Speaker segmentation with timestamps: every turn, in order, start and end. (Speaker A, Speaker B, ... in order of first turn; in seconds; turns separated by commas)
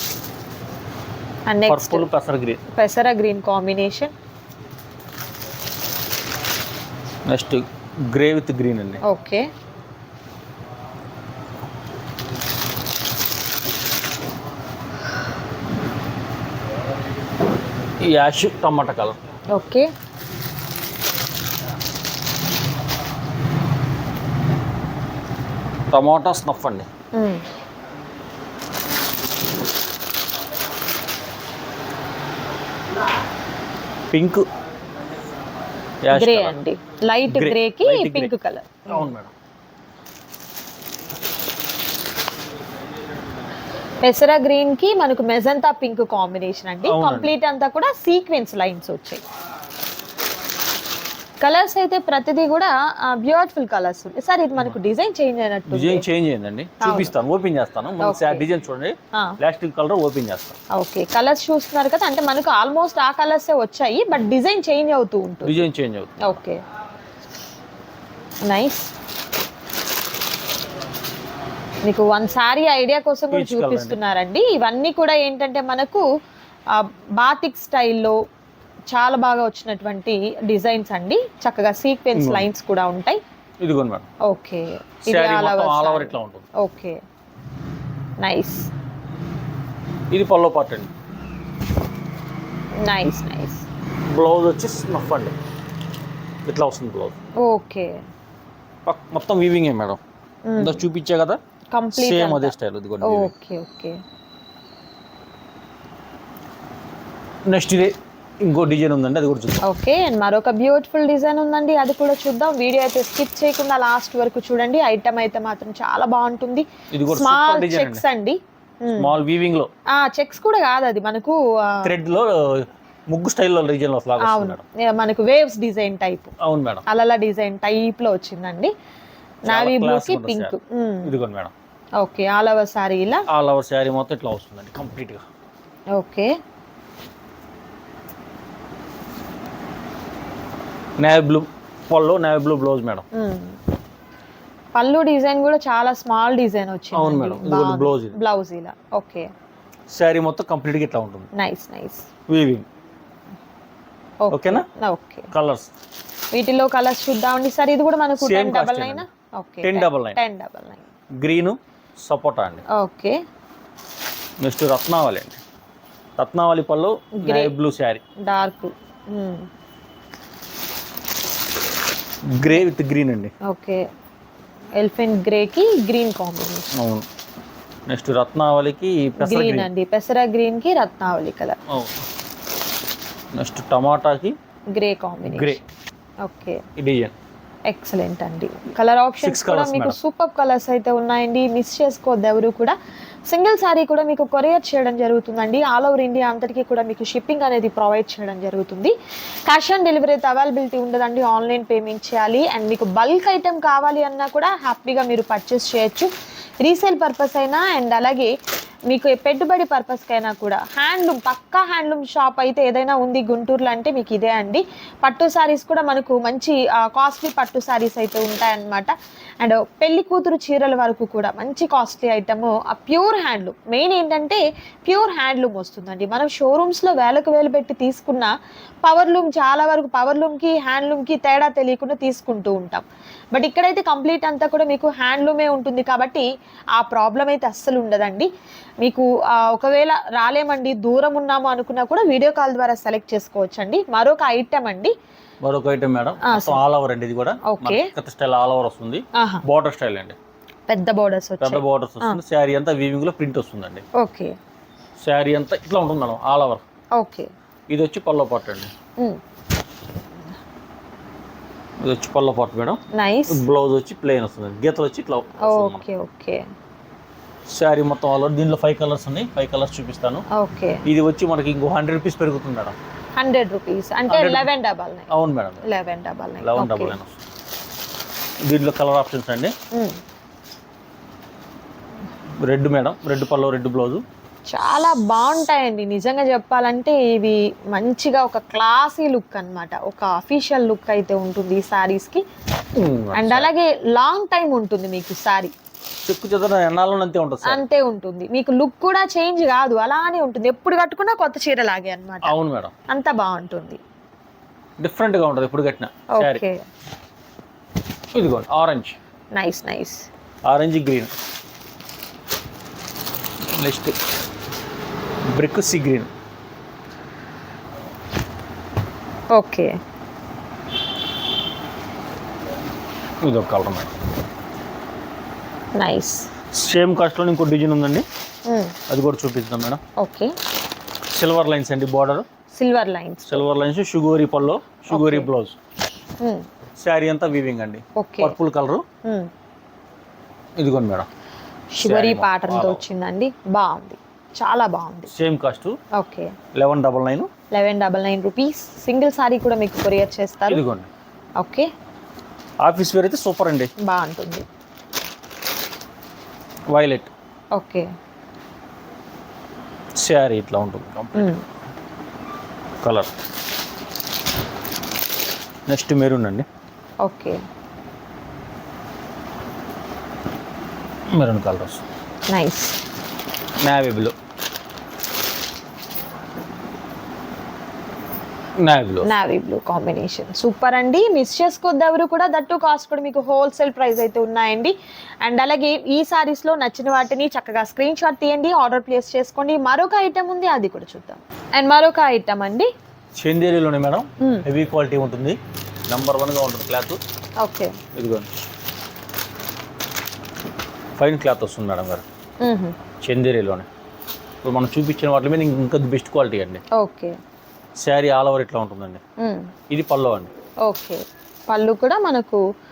Speaker A: 1.5-2.1, Speaker B: 1.7-2.6, Speaker A: 2.7-4.1, Speaker B: 7.3-9.0, Speaker A: 9.0-9.5, Speaker B: 18.0-19.2, Speaker A: 19.5-19.9, Speaker B: 25.9-26.9, Speaker A: 27.1-27.4, Speaker B: 34.1-34.4, Speaker B: 36.0-36.6, Speaker A: 36.1-39.1, Speaker B: 37.3-38.3, Speaker B: 38.9-39.3, Speaker A: 44.0-49.2, Speaker B: 46.8-47.3, Speaker A: 51.4-56.0, Speaker B: 55.7-60.6, Speaker A: 56.8-57.1, Speaker A: 58.0-58.5, Speaker A: 60.7-65.6, Speaker B: 65.4-66.4, Speaker A: 66.2-66.6, Speaker A: 68.4-68.9, Speaker A: 71.8-76.0, Speaker B: 73.3-74.0, Speaker A: 76.7-78.1, Speaker A: 78.9-83.2, Speaker B: 82.1-82.5, Speaker B: 83.6-84.1, Speaker A: 84.2-87.0, Speaker B: 85.1-86.5, Speaker A: 88.2-88.7, Speaker B: 90.1-90.9, Speaker A: 92.8-93.6, Speaker B: 94.1-95.3, Speaker B: 96.4-97.2, Speaker A: 97.4-98.0, Speaker B: 98.8-100.0, Speaker A: 100.5-100.8, Speaker B: 100.6-101.4, Speaker A: 101.7-104.0, Speaker B: 102.0-103.3, Speaker B: 107.5-109.7, Speaker A: 109.6-119.2, Speaker B: 116.9-118.0, Speaker B: 118.9-119.7, Speaker A: 119.9-121.9, Speaker B: 121.8-124.6, Speaker A: 124.2-126.3, Speaker B: 126.4-126.8, Speaker A: 126.9-128.7, Speaker A: 129.4-131.1, Speaker B: 129.5-131.5, Speaker A: 132.0-133.2, Speaker B: 133.3-135.2, Speaker A: 135.9-136.3, Speaker B: 141.0-143.0, Speaker A: 143.1-143.6, Speaker A: 144.7-149.3, Speaker B: 146.9-148.2, Speaker B: 149.9-151.3, Speaker A: 151.3-152.1, Speaker B: 152.3-152.7, Speaker A: 154.2-155.3, Speaker B: 154.3-154.6, Speaker B: 155.3-155.7, Speaker A: 156.3-160.8, Speaker B: 158.2-159.0, Speaker B: 159.6-160.2, Speaker B: 161.2-162.6, Speaker A: 162.7-163.2, Speaker B: 164.4-165.4, Speaker B: 166.2-168.0, Speaker A: 167.2-167.5, Speaker A: 168.2-169.5, Speaker B: 172.3-173.3, Speaker A: 173.5-173.8, Speaker A: 174.8-176.7, Speaker B: 176.7-177.1, Speaker B: 177.9-179.7, Speaker A: 179.2-181.6, Speaker B: 181.7-182.0, Speaker B: 183.3-184.3, Speaker A: 184.7-185.6, Speaker B: 185.3-185.6, Speaker A: 186.2-186.6, Speaker B: 186.8-187.1, Speaker A: 187.7-192.7, Speaker B: 189.2-190.0, Speaker A: 193.3-198.9, Speaker A: 199.5-206.1, Speaker A: 206.6-208.3, Speaker A: 208.9-228.3, Speaker A: 228.8-238.3, Speaker A: 238.8-244.9, Speaker B: 245.4-250.2, Speaker A: 246.2-246.6, Speaker A: 247.4-247.9, Speaker A: 249.1-249.4, Speaker A: 250.7-252.2, Speaker B: 251.4-253.8, Speaker A: 253.9-254.3, Speaker B: 255.0-256.6, Speaker A: 256.9-257.3, Speaker B: 257.7-258.7, Speaker B: 261.8-265.8, Speaker A: 262.9-263.4, Speaker A: 265.4-266.4, Speaker B: 267.5-270.2, Speaker A: 270.3-270.9, Speaker B: 270.9-272.8, Speaker A: 273.1-275.1, Speaker B: 274.1-274.5, Speaker B: 275.1-275.6, Speaker A: 275.6-277.0, Speaker B: 276.4-277.2, Speaker B: 278.4-279.5, Speaker B: 282.4-284.0, Speaker A: 284.5-292.2, Speaker B: 292.8-293.5, Speaker A: 293.1-295.5, Speaker B: 296.1-297.6, Speaker A: 297.4-302.3, Speaker B: 302.2-302.7, Speaker A: 302.9-303.8, Speaker B: 304.8-306.4, Speaker A: 306.1-306.6, Speaker B: 308.1-309.0, Speaker A: 309.3-310.1, Speaker B: 310.4-311.1, Speaker B: 313.4-313.9, Speaker B: 315.3-316.1, Speaker A: 319.3-319.8, Speaker B: 323.2-323.9, Speaker A: 325.8-326.3, Speaker B: 326.5-328.0, Speaker A: 328.5-328.8, Speaker B: 328.9-329.8, Speaker A: 330.0-330.3, Speaker B: 331.1-332.2, Speaker A: 332.5-333.4, Speaker B: 333.3-335.6, Speaker A: 334.9-335.3, Speaker A: 336.2-336.4, Speaker B: 336.8-338.8, Speaker A: 337.9-338.3, Speaker A: 339.0-339.3, Speaker B: 340.6-341.1, Speaker A: 341.7-345.1, Speaker B: 341.8-342.8, Speaker B: 345.1-345.8, Speaker A: 345.9-346.3, Speaker B: 346.5-347.3, Speaker A: 347.5-350.6, Speaker B: 350.5-350.9, Speaker A: 351.4-351.7, Speaker B: 352.6-353.7, Speaker A: 353.8-354.4, Speaker B: 356.7-357.1, Speaker A: 357.5-357.9, Speaker B: 360.0-361.3, Speaker A: 361.1-361.4, Speaker B: 362.8-363.1, Speaker B: 365.7-366.4, Speaker A: 367.0-367.4, Speaker B: 371.1-371.8, Speaker A: 372.3-372.8, Speaker B: 373.6-374.1, Speaker B: 378.6-379.1, Speaker A: 379.0-392.7, Speaker B: 393.2-395.4, Speaker B: 395.9-397.0, Speaker A: 397.4-397.8, Speaker B: 397.9-398.3, Speaker B: 401.0-402.0, Speaker A: 402.4-402.7, Speaker B: 403.0-403.7, Speaker B: 404.4-406.6, Speaker A: 406.7-407.1, Speaker B: 407.8-409.0, Speaker A: 409.2-409.5, Speaker B: 409.7-410.3, Speaker A: 410.6-412.4